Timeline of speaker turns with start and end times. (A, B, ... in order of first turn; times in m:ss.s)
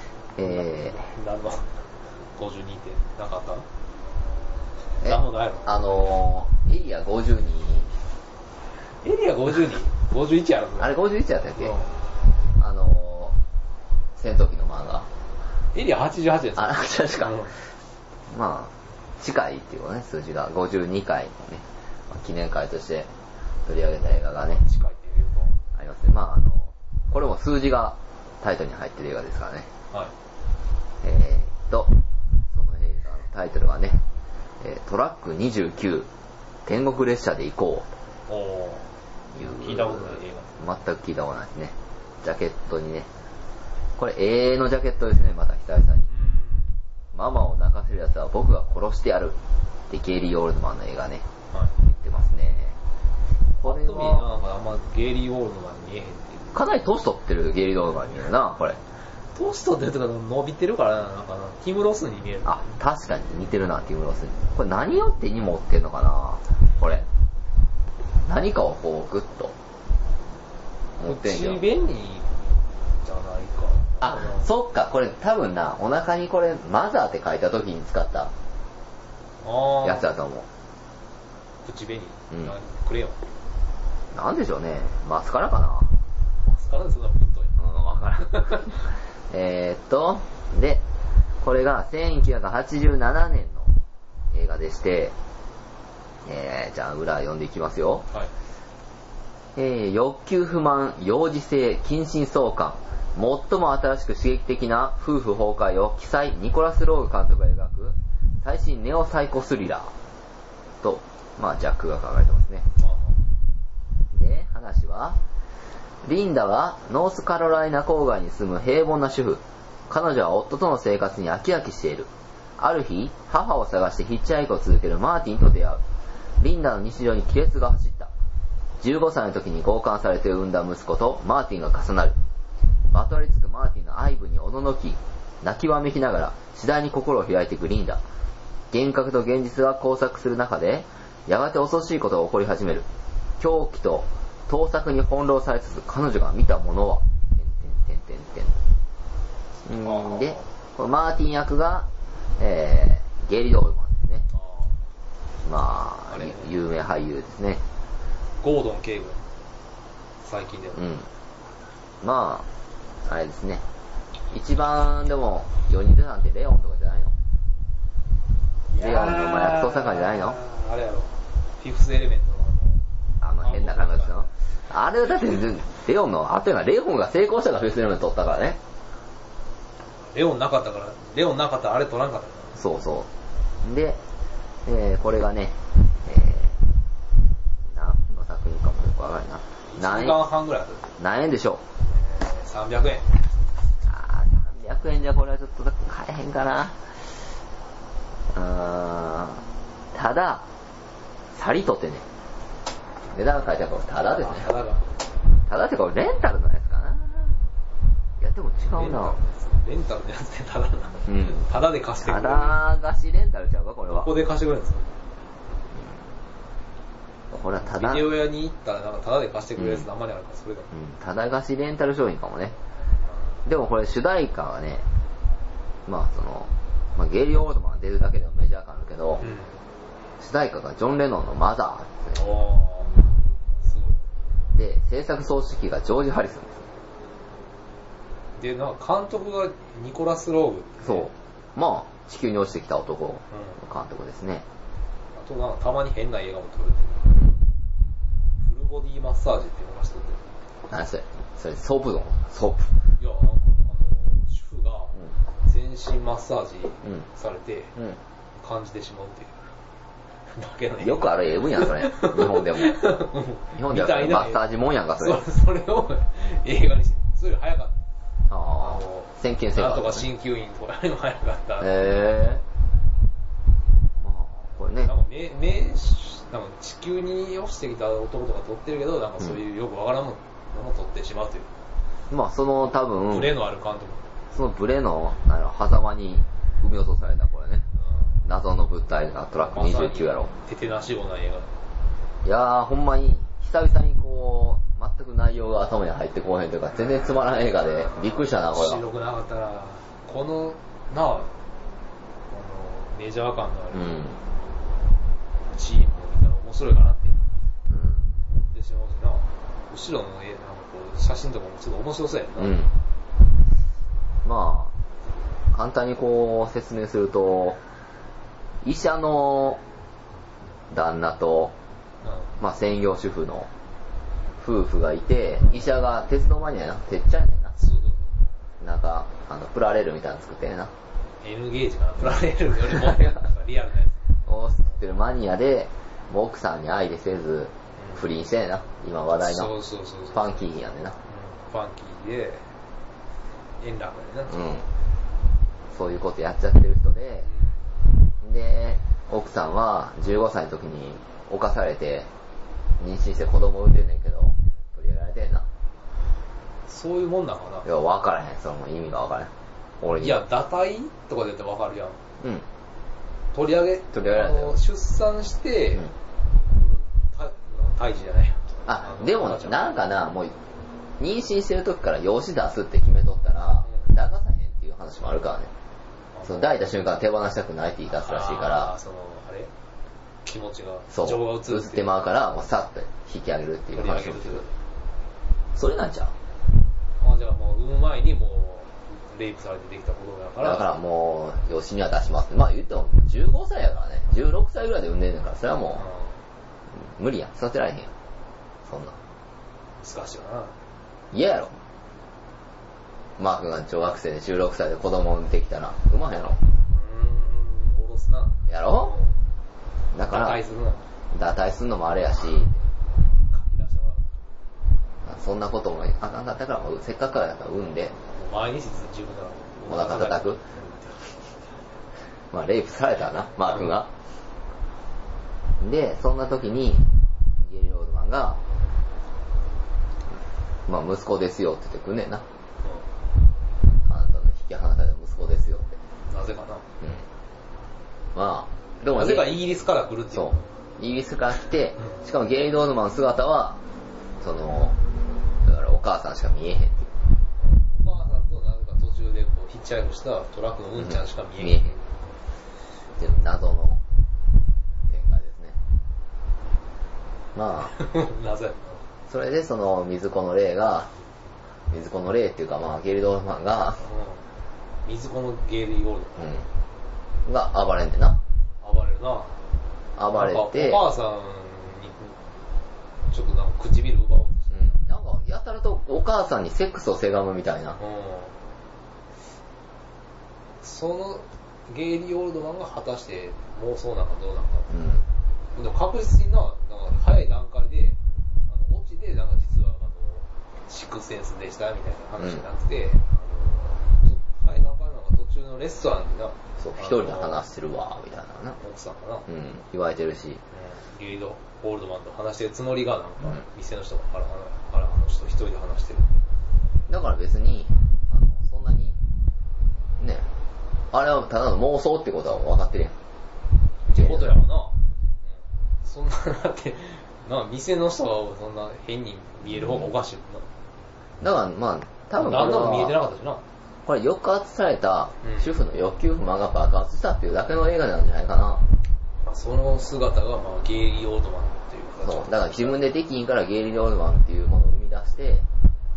0:00.4-0:01.0 A
0:00.4-0:03.6 B
0:05.0-0:06.2 B
0:05.0-0:07.9 A
0:09.0-0:10.9 B
0:10.8-0:11.8 A
0:11.6-0:11.9 B
0:12.6-0:13.4 A
0:14.2-0:15.1 A
0:15.7-0:17.5 B
0:16.6-0:17.5 A
0:18.3-0:23.1 A
0:23.6-0:24.6 A
0:24.4-0:25.6 B
0:25.8-0:29.7 A
0:31.0-0:31.9 A
0:32.5-0:34.0 A
0:34.6-0:36.1 A
0:36.6-0:37.9 A
0:38.3-0:40.6 B
0:39.3-0:43.1 A
0:44.0-0:46.1 A
0:46.1-0:46.8 B
0:47.1-0:49.4 A
0:49.9-0:51.2 A
0:51.8-0:52.8 A
0:53.6-0:54.3 A
0:53.6-0:56.6 B
0:56.5-0:58.8 A
0:59.3-1:02.6 B
1:02.4-1:07.0 A
1:08.2-1:09.5 A
1:11.0-1:11.6 A
1:11.0-1:12.4 B
1:13.0-1:14.5 B
1:14.0-1:18.3 A
1:19.4-1:20.1 B
1:19.8-1:20.5 A
1:21.6-1:23.2 B
1:24.1-1:25.9 A
1:26.4-1:27.6 B
1:27.6-1:30.8 A
1:28.2-1:28.8 B
1:31.4-1:33.7 A
1:34.3-1:35.1 A
1:36.2-1:38.1 A
1:39.5-1:49.9 A
1:50.8-1:52.7 A
1:52.8-1:53.2 B
1:54.1-1:55.2 A
1:56.0-2:05.8 A
2:06.4-2:08.1 A
2:08.8-2:12.2 A
2:12.9-2:18.0 A
2:18.7-2:22.8 A
2:23.4-2:28.6 A
2:29.6-2:34.2 A
2:29.8-2:30.5 B
2:34.3-2:34.8 B
2:35.4-2:37.6 A
2:36.1-2:36.5 B
2:38.4-2:39.2 B
2:40.2-2:40.9 B
2:40.8-2:41.1 A
2:42.0-2:42.5 A
2:43.0-2:43.6 A
2:44.3-2:47.1 A
2:48.7-2:52.8 B
2:48.8-2:50.4 A
2:53.2-2:58.6 A
2:53.4-2:54.3 B
3:00.0-3:02.6 B
3:02.5-3:03.1 A
3:03.6-3:04.0 A
3:04.6-3:06.6 A
3:07.7-3:10.2 A
3:09.6-3:10.9 B
3:11.0-3:11.6 A
3:11.9-3:13.1 B
3:13.8-3:16.9 A
3:18.3-3:20.5 A
3:21.3-3:22.0 A
3:23.1-3:24.5 A
3:24.1-3:24.8 B
3:25.5-3:27.4 A
3:28.2-3:29.2 A
3:28.7-3:32.6 B
3:31.1-3:31.4 A
3:32.0-3:34.1 A
3:33.9-3:35.0 B
3:37.3-3:38.1 A
3:37.6-3:40.7 B
3:40.7-3:42.6 A
3:43.0-3:43.4 B
3:43.4-3:44.8 A
3:45.8-3:49.2 A
3:49.2-3:49.6 B
3:50.2-3:52.2 A
3:52.1-3:53.1 B
3:53.6-3:54.0 B
3:54.5-3:56.6 A
3:58.4-4:01.1 B
4:00.8-4:04.4 A
4:03.3-4:03.6 B
4:05.1-4:07.2 B
4:08.4-4:10.3 B
4:10.7-4:12.7 A
4:13.0-4:17.8 B
4:18.4-4:19.5 B
4:20.3-4:24.4 B
4:20.8-4:22.8 A
4:23.6-4:25.2 A
4:25.0-4:27.8 B
4:28.3-4:30.1 A
4:28.6-4:32.3 B
4:31.6-4:32.4 A
4:34.0-4:34.9 A
4:34.8-4:41.5 B
4:42.1-4:43.3 A
4:43.1-4:44.1 B
4:44.3-4:47.6 A
4:47.8-4:48.2 B
4:48.2-4:50.3 A
4:49.4-4:51.5 B
4:52.2-4:58.8 A
4:58.3-5:01.3 B
5:02.3-5:04.0 B
5:03.7-5:04.2 A
5:05.5-5:07.2 B
5:07.7-5:08.1 A
5:08.2-5:12.6 B
5:12.4-5:12.7 A
5:14.2-5:14.7 A
5:15.5-5:17.6 A
5:18.6-5:19.6 A
5:20.7-5:21.5 A
5:22.0-5:22.3 B
5:22.4-5:23.5 A
5:24.4-5:27.5 A
5:27.6-5:28.1 B
5:28.6-5:30.7 A
5:31.2-5:34.0 B
5:32.7-5:33.0 A
5:34.2-5:39.5 A
5:37.8-5:38.0 B
5:39.2-5:40.3 B
5:40.1-5:41.0 A
5:41.0-5:42.5 B
5:43.6-5:44.5 B
5:44.3-5:44.6 A
5:45.7-5:47.3 A
5:47.2-5:47.6 B
5:48.2-5:52.1 A
5:52.8-5:55.5 A
5:56.7-5:57.6 B
5:57.6-6:00.2 A
6:00.0-6:02.0 B
6:02.2-6:02.4 A
6:03.3-6:05.9 B
6:03.9-6:04.6 A
6:06.5-6:09.7 B
6:08.6-6:10.4 A
6:11.0-6:15.5 A
6:16.1-6:16.5 B
6:16.2-6:18.7 A
6:17.9-6:19.5 B
6:20.2-6:21.9 B
6:20.9-6:24.4 A
6:23.7-6:24.5 B
6:25.5-6:26.1 A
6:27.0-6:30.7 B
6:30.4-6:35.8 A
6:35.8-6:36.2 B
6:36.7-6:37.9 A
6:38.7-6:39.0 A
6:39.8-6:40.6 B
6:41.1-6:41.5 A
6:43.2-6:46.4 A
6:46.7-6:49.2 B
6:48.5-6:49.0 A
6:49.9-6:50.4 A
6:50.0-6:50.8 B
6:51.1-6:52.6 A
6:53.3-6:54.1 B
6:55.0-6:57.9 A
6:58.1-7:01.4 B
6:59.7-7:00.4 A
7:02.3-7:03.9 A
7:05.6-7:08.4 A
7:10.7-7:12.2 A
7:12.6-7:12.9 B
7:13.9-7:15.8 A
7:16.1-7:16.6 B
7:18.1-7:19.3 A
7:18.9-7:20.4 B
7:20.1-7:23.6 A
7:24.2-7:24.8 A
7:25.4-7:26.9 A
7:27.4-7:31.8 B
7:30.8-7:31.7 A
7:33.0-7:33.8 A
7:34.9-7:35.6 A
7:37.3-7:37.7 A
7:37.6-7:38.8 B
7:39.1-7:40.9 A
7:41.7-7:43.8 A
7:43.8-7:44.2 B
7:44.8-7:46.4 B
7:46.2-7:46.5 A
7:47.2-7:48.2 A
7:48.6-7:49.4 B
7:50.0-7:50.8 A
7:50.1-7:52.2 B
7:53.1-7:54.8 B
7:54.5-7:57.8 A
7:57.8-7:58.4 B
8:00.6-8:04.7 B
8:04.7-8:05.0 A
8:05.5-8:17.4 B
8:16.6-8:18.6 A
8:18.6-8:19.3 B
8:19.3-8:20.4 A
8:20.5-8:26.2 B
8:26.9-8:29.0 A
8:30.0-8:30.3 A
8:30.9-8:32.9 A
8:33.9-8:34.4 A
8:33.9-8:34.8 B
8:35.8-8:40.5 B
8:41.2-8:43.0 A
8:42.2-8:43.4 B
8:43.8-8:48.6 A
8:45.2-8:45.5 B
8:49.2-8:52.8 B
8:52.0-8:55.4 A